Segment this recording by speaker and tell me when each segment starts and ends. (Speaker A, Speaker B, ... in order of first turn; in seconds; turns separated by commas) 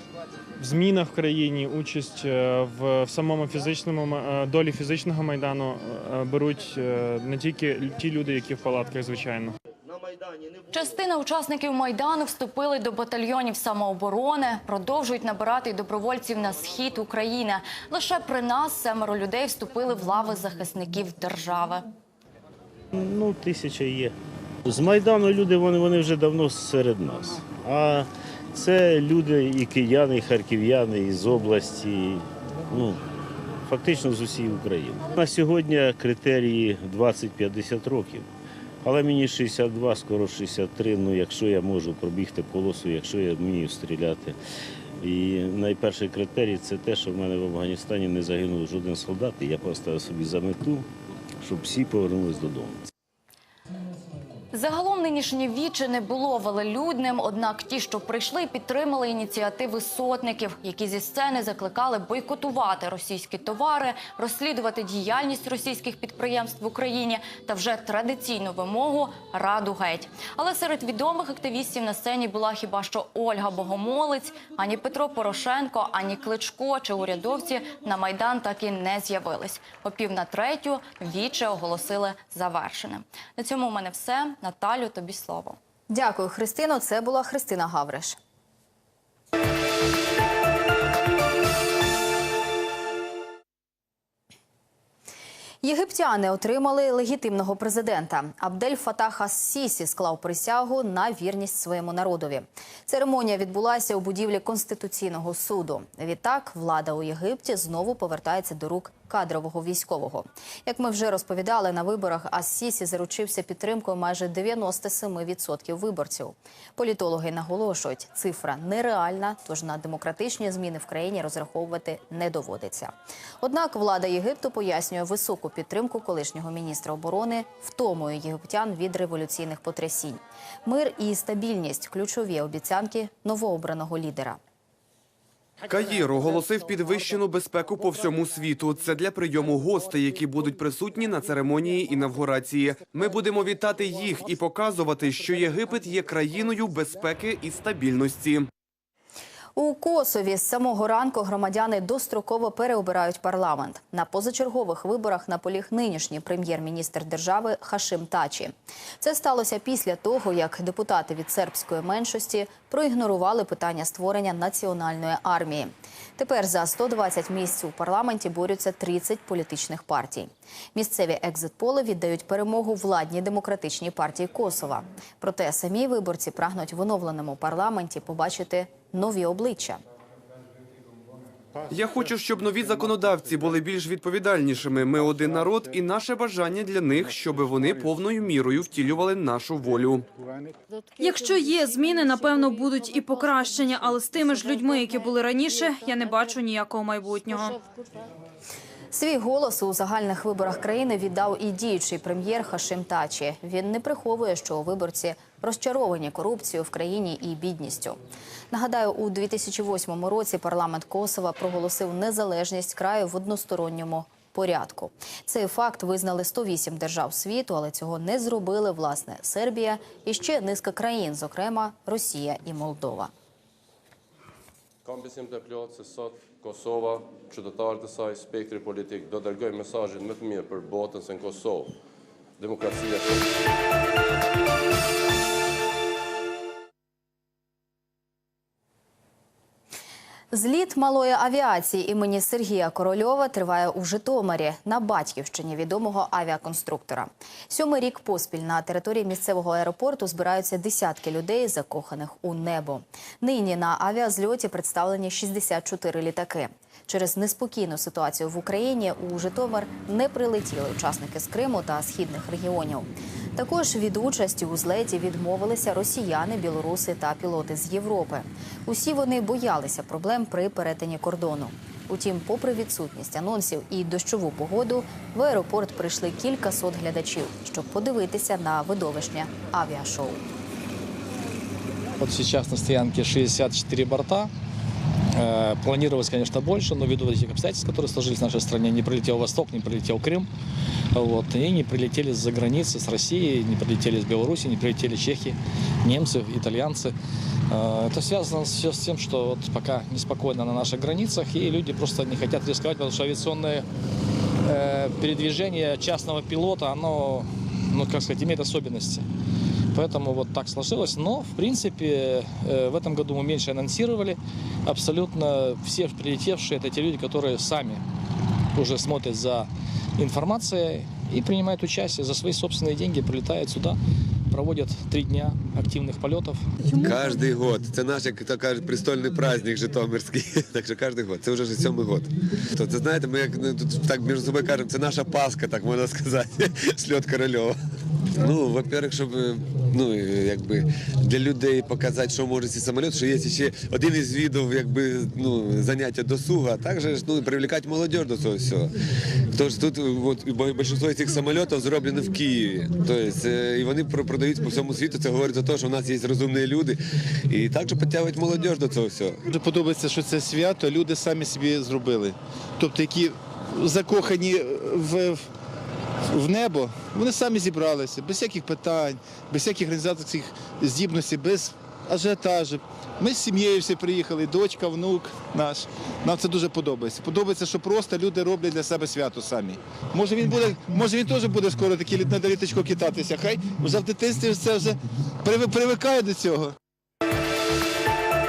Speaker A: 0.6-9.6, Speaker B: 10.7-21.9, Speaker C: 22.9-33.0, Speaker C: 33.6-38.3, Speaker C: 38.8-44.4, Speaker C: 45.0-50.9, Speaker C: 51.4-52.9, Speaker B: 54.5-85.6, Speaker D: 85.9-88.2, Speaker D: 95.6-134.4, Speaker E: 135.7-148.5, Speaker D: 149.6-179.8, Speaker E: 181.7-190.1, Speaker F: 191.0-197.6, Speaker D: 198.9-208.0, Speaker D: 208.5-223.1, Speaker G: 224.8-231.8, Speaker G: 232.4-233.4, Speaker D: 240.3-280.2, Speaker H: 282.0-284.3, Speaker H: 285.1-290.3, Speaker H: 290.9-296.9, Speaker H: 297.5-303.7, Speaker H: 304.4-309.1, Speaker H: 309.7-317.8, Speaker H: 318.5-323.8, Speaker H: 324.3-326.5, Speaker I: 326.7-337.6, Speaker I: 338.1-348.8, Speaker I: 349.3-359.2, Speaker J: 359.3-365.3, Speaker J: 366.1-386.6